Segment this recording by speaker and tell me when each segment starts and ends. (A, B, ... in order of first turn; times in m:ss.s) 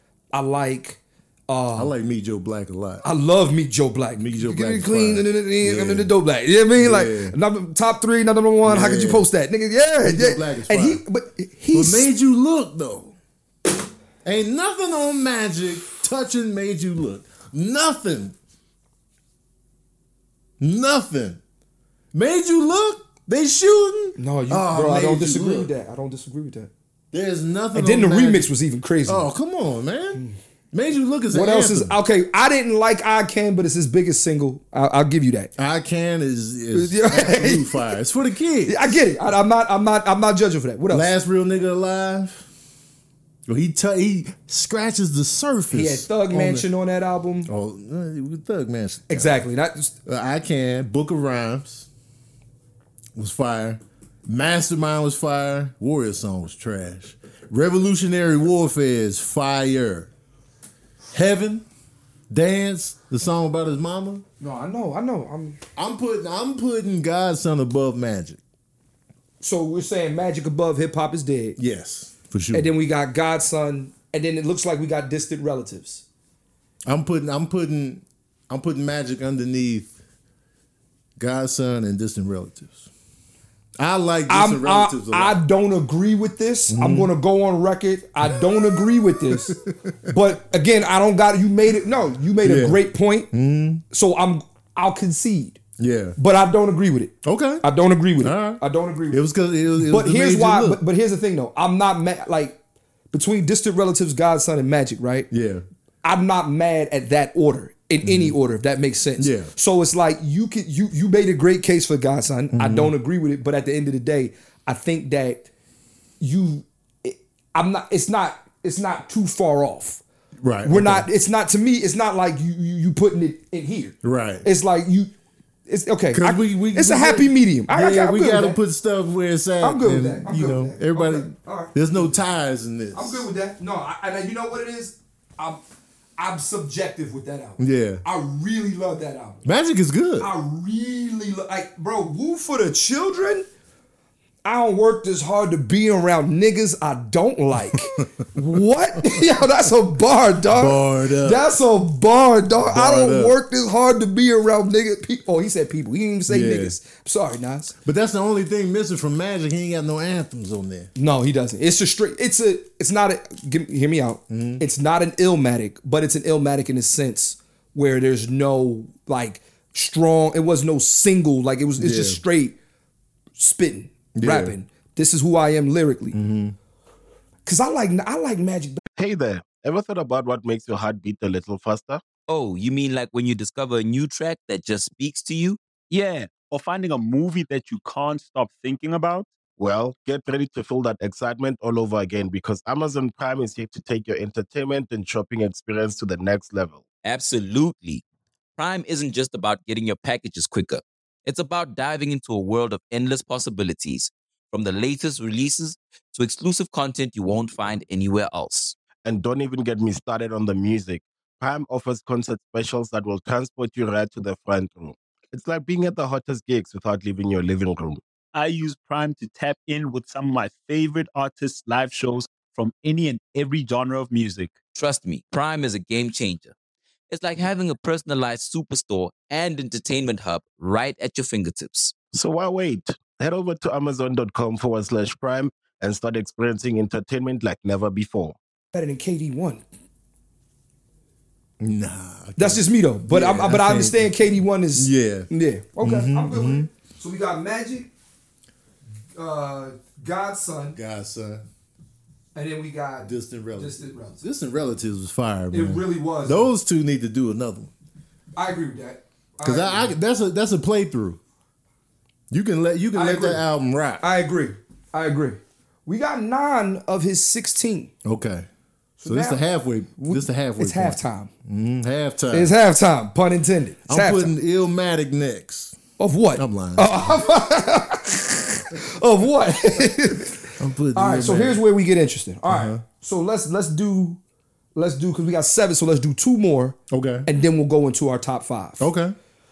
0:00.3-0:01.9 A
0:01.7-0:03.0 B
0:03.0-0:12.1 A
0:04.1-0:06.1 B
0:06.8-0:07.4 B
0:08.6-0:09.3 B
0:10.0-0:11.0 B
0:11.7-0:13.2 B
0:14.2-0:18.4 B
0:20.6-0:21.4 B
0:22.1-0:25.7 B
0:24.2-0:26.7 A
0:27.1-0:28.5 B
0:27.7-0:29.2 A
0:29.0-0:31.9 B
0:31.3-0:35.5 A
0:35.6-0:39.0 B
0:36.7-0:37.9 A
0:38.7-0:41.1 A
0:40.9-0:42.5 B
0:43.5-0:46.6 B
0:45.7-0:47.5 A
0:47.4-0:49.4 B
0:49.1-0:49.9 A
0:50.0-0:51.9 B
0:53.1-1:00.1 B
1:01.1-1:01.6 B
1:02.3-1:04.2 B
1:04.4-1:05.6 A
1:05.8-1:08.4 B
1:09.4-1:11.6 A
1:11.6-1:12.7 B
1:12.5-1:16.0 A
1:16.8-1:20.0 B
1:21.2-1:22.9 B
1:23.8-1:25.4 B
1:24.3-1:29.6 A
1:26.7-1:27.1 B
1:28.2-1:30.1 B
1:30.1-1:33.3 A
1:32.4-1:33.8 B
1:33.9-1:35.6 A
1:35.8-1:36.2 B
1:36.2-1:39.2 A
1:37.2-1:37.6 B
1:38.2-1:40.8 B
1:39.8-1:42.6 A
1:43.1-1:45.3 A
1:45.3-1:45.6 B
1:46.0-1:55.4 A
1:48.0-1:48.4 B
1:49.2-1:49.5 B
1:52.5-1:52.9 B
1:56.2-2:00.0 A
2:00.4-2:01.1 B
2:00.6-2:05.1 A
2:04.0-2:04.4 B
2:05.7-2:08.6 A
2:06.1-2:13.3 B
2:09.6-2:12.1 A
2:12.9-2:15.6 A
2:16.2-2:19.4 A
2:17.6-2:18.0 B
2:19.4-2:20.3 B
2:20.2-2:23.4 A
2:24.4-2:37.7 A
2:27.7-2:28.0 B
2:29.0-2:29.2 B
2:30.5-2:31.5 B
2:32.6-2:33.4 B
2:36.3-2:36.8 B
2:37.8-2:40.9 B
2:41.0-2:52.6 A
2:44.3-2:44.6 B
2:51.8-2:52.2 B
2:53.4-2:56.2 A
2:54.1-2:54.6 B
2:56.1-2:56.6 B
2:57.4-2:58.8 A
2:59.0-3:02.0 C
3:02.3-3:05.6 D
3:05.9-3:09.3 E
3:09.6-3:16.8 C
3:17.0-3:18.0 D
3:18.6-3:28.8 D
3:29.0-3:38.0 C
3:38.3-3:44.5 E
3:44.7-3:46.5 D
3:47.1-3:51.9 D
3:52.1-3:58.4 C
3:58.7-3:59.6 A
4:01.6-4:04.1 B
4:02.4-4:07.9 A
4:04.8-4:05.3 B
4:05.8-4:06.7 B
4:09.2-4:10.8 A
4:10.7-4:11.4 B
4:12.3-4:14.2 A
4:13.0-4:17.7 B
4:15.5-4:16.5 A
4:18.4-4:19.9 A
4:19.4-4:21.2 B
4:22.3-4:24.0 B
4:22.9-4:23.4 A
4:24.0-4:27.9 A
4:28.0-4:28.5 B
4:29.0-4:29.4 A
4:29.0-4:32.5 B
4:30.0-4:31.3 A
4:32.3-4:34.3 A
4:33.9-4:35.8 B
4:36.0-4:44.2 A
4:36.4-4:37.2 B
4:40.5-4:41.6 B
4:42.5-4:42.8 B
4:44.7-4:48.9 A
4:46.9-4:47.3 B
4:48.8-4:49.1 B